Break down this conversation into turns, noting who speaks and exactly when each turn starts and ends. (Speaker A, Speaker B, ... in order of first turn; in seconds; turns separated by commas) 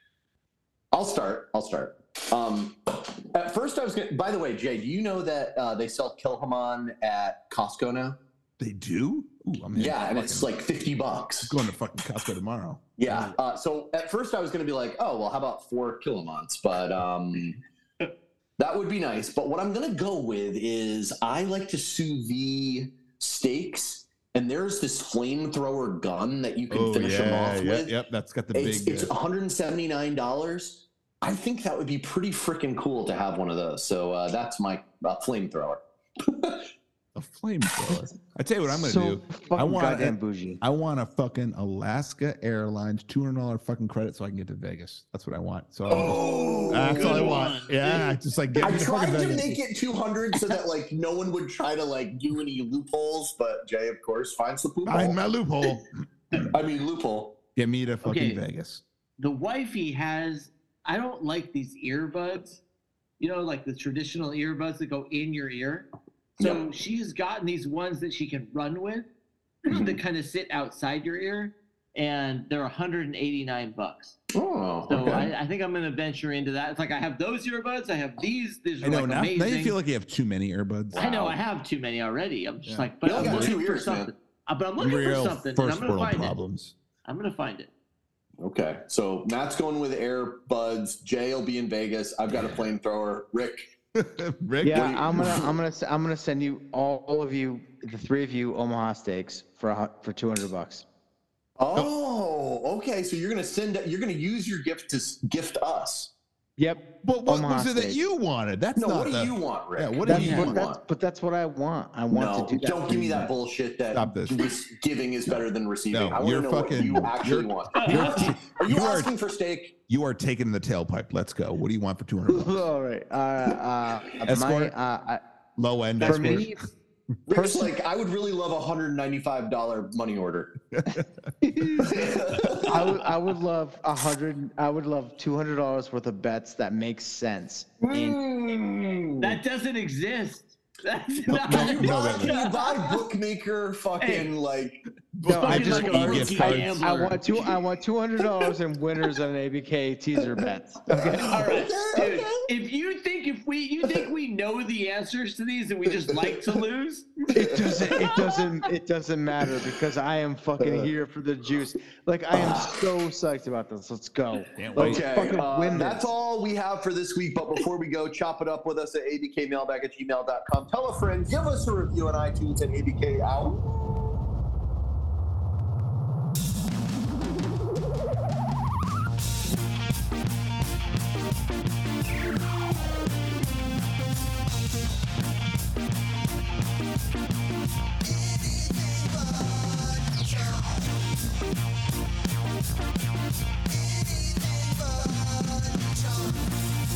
Speaker A: 0.9-8.2, Speaker B: 8.6-10.5, Speaker A: 9.8-11.6, Speaker B: 11.4-13.4, Speaker A: 13.0-17.6, Speaker A: 18.6-27.9, Speaker B: 26.7-29.1, Speaker A: 28.5-36.7, Speaker B: 37.1-49.6, Speaker C: 38.7-40.6, Speaker A: 45.9-47.9, Speaker D: 45.9-48.0, Speaker A: 48.6-55.2, Speaker B: 54.9-56.5, Speaker A: 56.4-57.4, Speaker B: 57.6-58.8, Speaker D: 58.0-58.4, Speaker D: 59.2-62.6, Speaker D: 63.2-69.1, Speaker D: 69.6-74.2, Speaker A: 69.7-70.0, Speaker A: 74.3-75.3, Speaker D: 74.9-79.8, Speaker B: 78.8-81.1, Speaker A: 80.9-81.4, Speaker D: 81.0-86.3, Speaker B: 82.7-83.6, Speaker A: 83.0-84.1, Speaker B: 84.8-86.7, Speaker D: 87.0-87.7, Speaker A: 88.4-93.7, Speaker B: 92.3-92.6, Speaker B: 94.0-95.2, Speaker C: 94.6-100.8, Speaker A: 94.7-95.6, Speaker A: 101.6-106.1, Speaker C: 106.6-108.0, Speaker B: 107.0-110.5, Speaker A: 108.8-110.8, Speaker C: 110.0-113.3, Speaker D: 110.2-110.5, Speaker A: 112.1-119.8, Speaker B: 113.9-114.5, Speaker B: 115.3-119.1, Speaker D: 117.8-118.1, Speaker B: 119.9-122.6, Speaker C: 122.3-125.2, Speaker B: 124.2-124.7, Speaker B: 125.6-126.6, Speaker A: 126.0-126.5, Speaker C: 126.0-126.6, Speaker A: 127.3-130.6, Speaker C: 127.3-127.7, Speaker B: 130.8-131.0, Speaker C: 131.4-131.9, Speaker A: 131.8-133.0, Speaker C: 132.6-138.2, Speaker A: 137.8-139.4, Speaker D: 139.2-143.0, Speaker B: 141.3-142.3, Speaker A: 141.5-144.8, Speaker D: 144.0-144.3, Speaker B: 145.1-146.8, Speaker C: 145.2-151.3, Speaker D: 145.3-147.4, Speaker A: 145.5-146.8, Speaker A: 150.9-152.4, Speaker D: 151.2-157.2, Speaker A: 156.1-156.5, Speaker C: 157.3-166.1, Speaker A: 157.4-158.3, Speaker A: 160.6-160.9, Speaker A: 162.3-162.8, Speaker B: 164.6-165.3, Speaker A: 164.8-174.0, Speaker C: 194.3-195.1, Speaker C: 195.7-196.3